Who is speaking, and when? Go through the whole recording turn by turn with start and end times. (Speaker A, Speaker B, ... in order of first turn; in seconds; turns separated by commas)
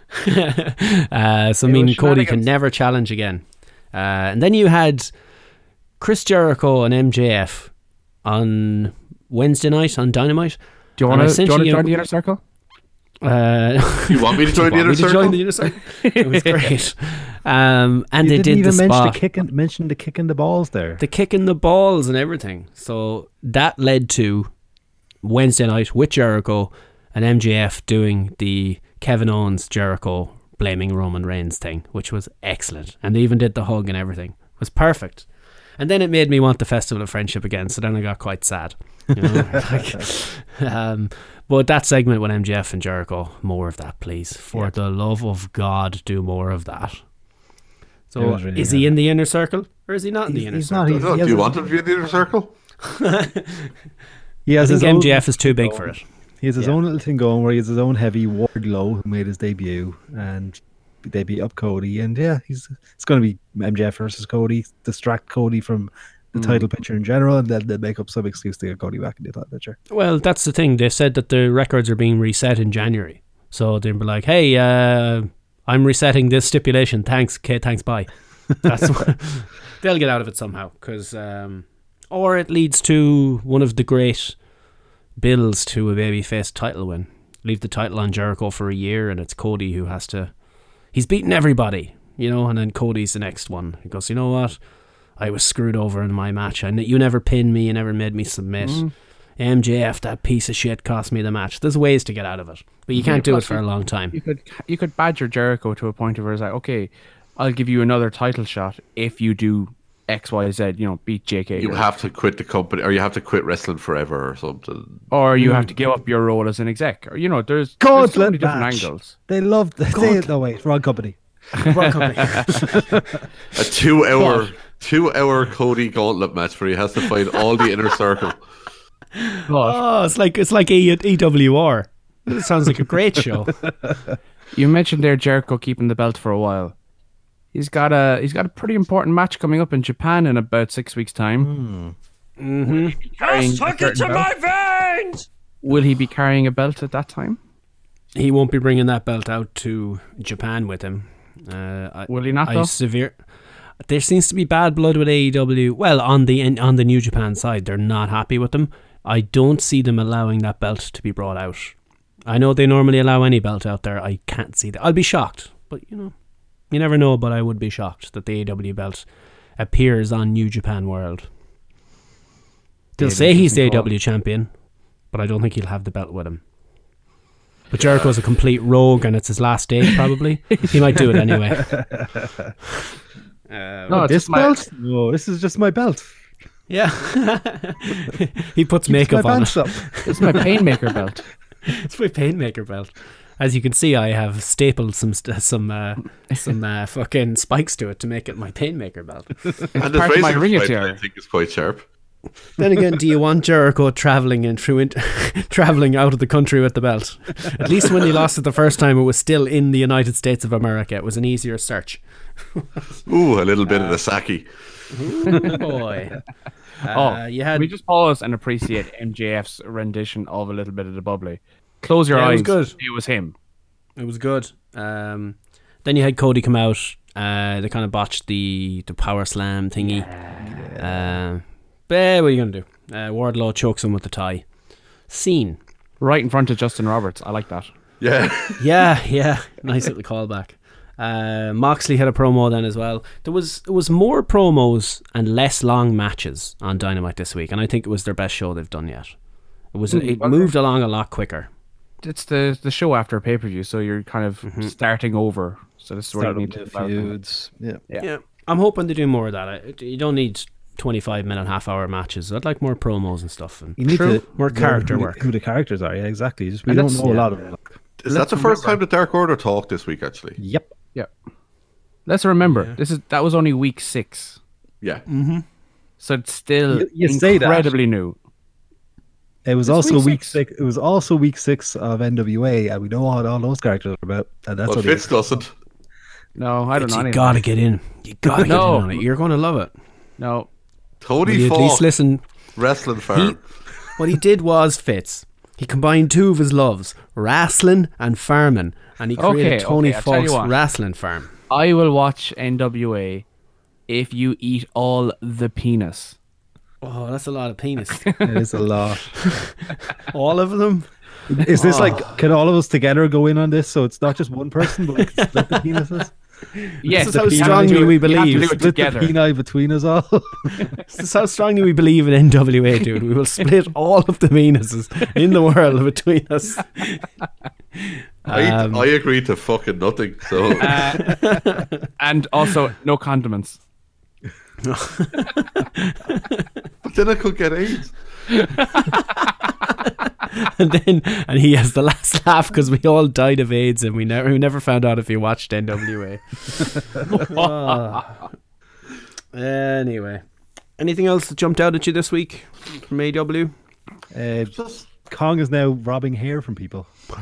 Speaker A: 0.1-5.1, Speaker B: 1.6-2.5, Speaker A: 6.0-7.7, Speaker A: 8.2-11.9, Speaker B: 11.0-12.4, Speaker A: 13.2-19.2, Speaker C: 14.1-15.4, Speaker B: 16.0-16.7, Speaker D: 18.2-21.0, Speaker A: 21.0-24.5, Speaker A: 25.2-35.3, Speaker A: 35.8-47.0, Speaker D: 39.3-39.6, Speaker A: 48.1-51.4, Speaker D: 48.2-48.9, Speaker D: 50.3-51.6, Speaker C: 51.0-52.5, Speaker A: 52.8-53.7, Speaker D: 54.5-69.8, Speaker A: 54.6-56.0, Speaker B: 66.3-66.6, Speaker A: 69.9-84.3, Speaker A: 85.2-90.3, Speaker A: 90.9-94.6, Speaker A: 95.2-98.8, Speaker B: 98.6-98.9, Speaker A: 99.4-104.2, Speaker B: 102.9-111.8, Speaker C: 111.5-115.1, Speaker B: 115.1-119.1, Speaker D: 115.4-115.7, Speaker D: 117.8-121.2, Speaker A: 119.9-120.3, Speaker A: 121.6-122.8, Speaker B: 121.7-122.4, Speaker D: 122.5-123.2, Speaker C: 123.5-128.4, Speaker A: 124.2-124.5, Speaker A: 129.1-133.6, Speaker B: 129.5-129.8, Speaker B: 134.5-136.7, Speaker B: 137.5-141.5, Speaker D: 141.4-141.9, Speaker A: 142.4-143.0, Speaker B: 143.1-144.3, Speaker E: 143.2-145.2, Speaker B: 145.6-147.4, Speaker A: 148.1-153.2, Speaker B: 152.1-152.7, Speaker A: 153.8-161.7, Speaker A: 162.3-166.1, Speaker A: 166.7-169.1, Speaker A: 169.6-171.3, Speaker A: 173.0-174.5, Speaker B: 173.0-173.9, Speaker A: 175.1-176.4, Speaker A: 177.7-181.8, Speaker D: 181.5-182.5, Speaker A: 183.5-184.1, Speaker B: 183.9-184.6, Speaker D: 183.9-186.1, Speaker A: 186.7-190.5, Speaker D: 188.8-190.4, Speaker B: 190.1-191.2, Speaker A: 191.7-199.6, Speaker B: 199.7-201.0, Speaker C: 199.8-201.8, Speaker A: 202.6-212.0, Speaker C: 213.1-214.5, Speaker A: 213.7-214.0, Speaker A: 214.9-216.2, Speaker B: 215.3-215.5, Speaker A: 216.8-217.7, Speaker B: 216.9-223.3, Speaker A: 222.1-222.8, Speaker A: 224.0-230.1, Speaker D: 230.4-231.2, Speaker A: 230.7-234.4, Speaker A: 235.1-235.6, Speaker B: 236.0-237.7, Speaker C: 238.0-238.6, Speaker A: 238.6-249.1, Speaker A: 249.7-251.5, Speaker B: 249.9-250.5, Speaker B: 252.0-257.1, Speaker A: 254.4-254.7, Speaker D: 256.2-257.8, Speaker A: 258.0-265.2, Speaker D: 263.8-268.8, Speaker B: 266.7-267.0, Speaker C: 268.0-270.4, Speaker D: 270.4-270.7, Speaker B: 272.1-274.4, Speaker A: 275.1-275.4, Speaker B: 276.0-278.1, Speaker D: 276.7-277.7, Speaker D: 279.4-285.3, Speaker B: 279.6-280.4, Speaker C: 284.6-285.5, Speaker B: 286.4-287.4, Speaker A: 286.8-289.7, Speaker B: 288.4-289.0, Speaker B: 290.2-290.5, Speaker C: 291.0-291.9, Speaker A: 291.2-292.2, Speaker C: 292.6-293.4, Speaker A: 293.1-293.4, Speaker A: 293.9-301.3, Speaker B: 299.2-300.5, Speaker B: 301.5-303.2, Speaker B: 303.9-306.1, Speaker A: 306.8-308.2, Speaker D: 308.2-309.1, Speaker A: 309.2-310.9, Speaker D: 311.3-316.1, Speaker A: 311.5-312.1, Speaker A: 315.0-315.6, Speaker A: 316.5-318.6, Speaker B: 316.8-319.1, Speaker D: 316.9-320.7, Speaker A: 320.9-327.1, Speaker A: 327.8-328.9, Speaker C: 328.3-331.0, Speaker B: 330.6-331.5, Speaker A: 330.6-331.8, Speaker B: 332.0-333.6, Speaker A: 334.6-336.5, Speaker C: 336.8-338.0, Speaker A: 338.9-346.7, Speaker B: 347.1-348.0, Speaker D: 347.3-348.0, Speaker A: 349.3-350.2, Speaker A: 350.8-353.5, Speaker D: 354.1-356.9, Speaker C: 354.6-354.8